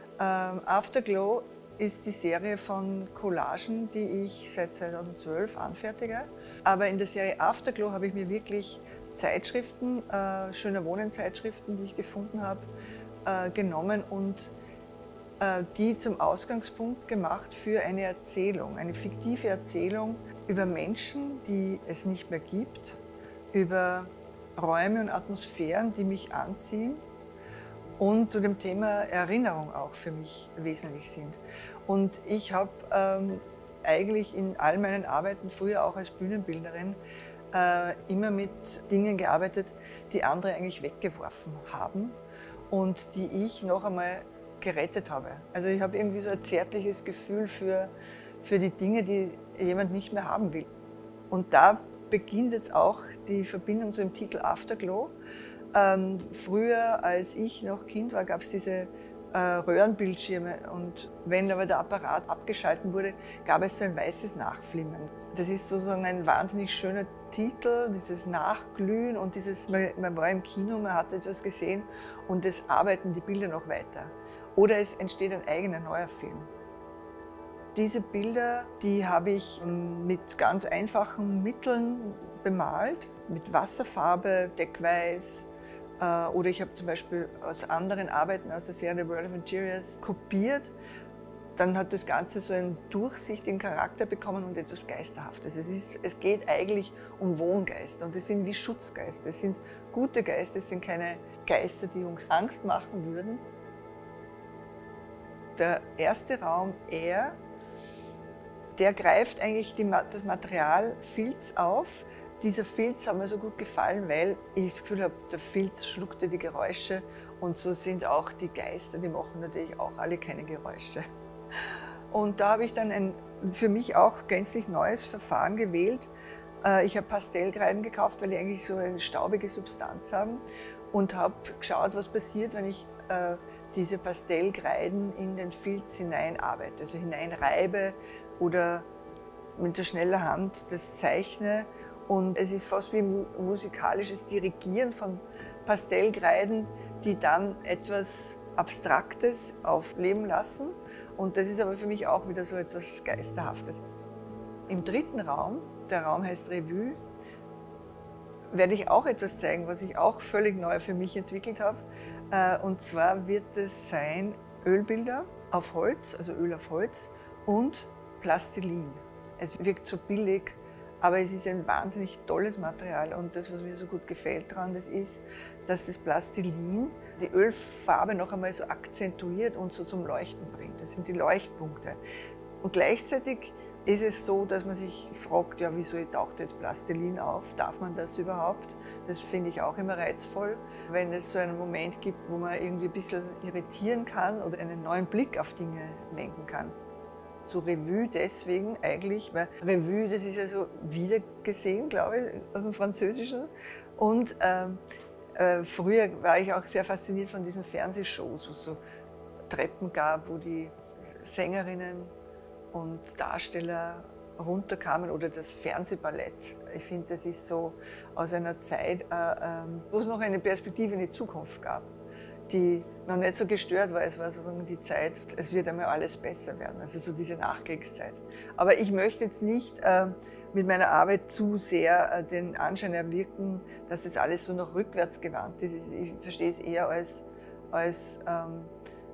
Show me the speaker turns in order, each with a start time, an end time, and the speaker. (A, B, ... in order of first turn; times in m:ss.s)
0:00.2-0:12.7 A
0:13.2-0:14.5 A
0:15.4-0:23.0 A
0:23.5-0:27.0 A
0:28.0-0:37.0 A
0:37.5-0:42.2 A
0:42.7-0:50.7 A
0:51.3-0:55.2 A
0:55.7-1:16.5 A
1:17.7-1:30.8 A
1:31.6-1:43.4 A
1:45.6-1:47.4 A
1:48.8-2:01.1 A
2:02.1-2:06.1 A
2:06.6-2:18.9 A
2:19.6-2:33.8 A
2:34.7-2:37.0 A
2:38.5-3:02.0 A
3:02.6-3:16.8 A
3:17.4-3:24.8 A
3:25.4-3:28.8 A
3:29.5-3:32.1 A
3:32.7-3:41.9 A
3:42.5-3:58.7 A